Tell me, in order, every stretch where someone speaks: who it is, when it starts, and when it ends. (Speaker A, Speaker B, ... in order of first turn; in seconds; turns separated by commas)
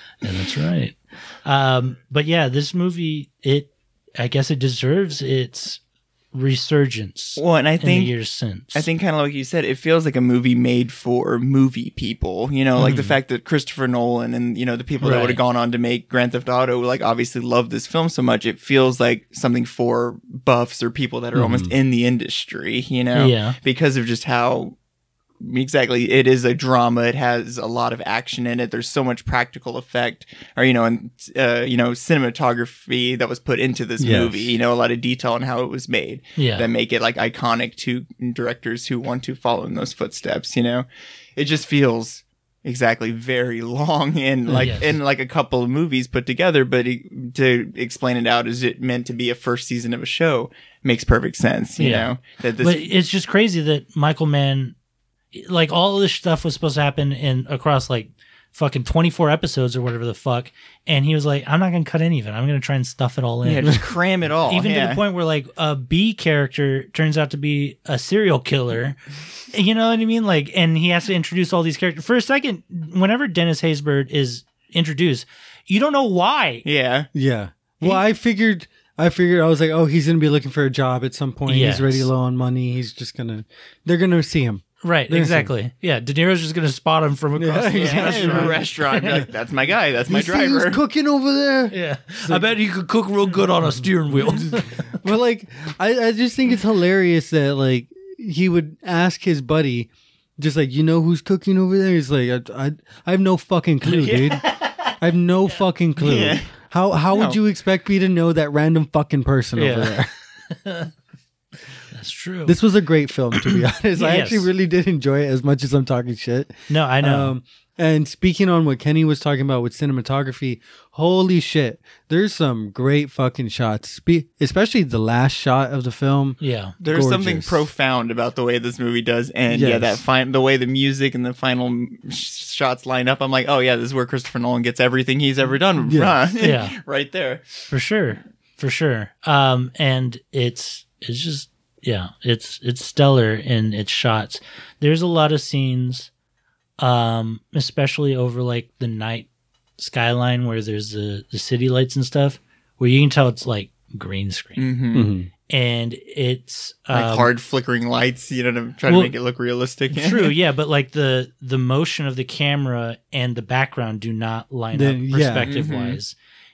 Speaker A: 0.2-5.8, Speaker A: 6.3-8.9, Speaker B: 7.4-8.1, Speaker B: 8.7-24.8, Speaker A: 12.8-13.2, Speaker A: 15.0-15.4, Speaker C: 21.4-21.7, Speaker A: 23.1-23.6, Speaker B: 25.4-52.8, Speaker C: 34.0-34.6, Speaker A: 36.4-36.7, Speaker C: 44.5-44.8, Speaker A: 44.6-44.9, Speaker A: 51.8-54.8, Speaker A: 55.3-63.9, Speaker B: 63.4-65.0, Speaker A: 64.5-69.0, Speaker A: 69.5-76.7, Speaker B: 76.6-77.1, Speaker C: 77.1-85.5, Speaker A: 81.5-82.1, Speaker A: 84.8-89.2, Speaker C: 87.4-89.2, Speaker B: 87.8-90.8, Speaker C: 90.1-92.5, Speaker A: 91.7-94.9, Speaker C: 93.7-110.1, Speaker A: 103.8-104.9, Speaker B: 106.0-106.5, Speaker B: 107.1-107.4, Speaker A: 109.6-110.9, Speaker A: 111.9-112.6, Speaker C: 112.5-127.7, Speaker A: 114.0-114.5, Speaker A: 116.7-117.3, Speaker A: 126.4-126.8, Speaker B: 126.8-137.5, Speaker C: 129.5-130.0, Speaker C: 135.8-136.2, Speaker A: 136.4-136.8, Speaker A: 137.7-146.1, Speaker A: 146.8-149.3, Speaker A: 149.8-154.6, Speaker B: 154.6-155.1, Speaker C: 154.9-155.3, Speaker A: 155.5-157.3, Speaker B: 156.9-160.4, Speaker A: 158.9-159.1, Speaker A: 159.9-166.2, Speaker C: 164.7-165.5, Speaker B: 165.4-166.0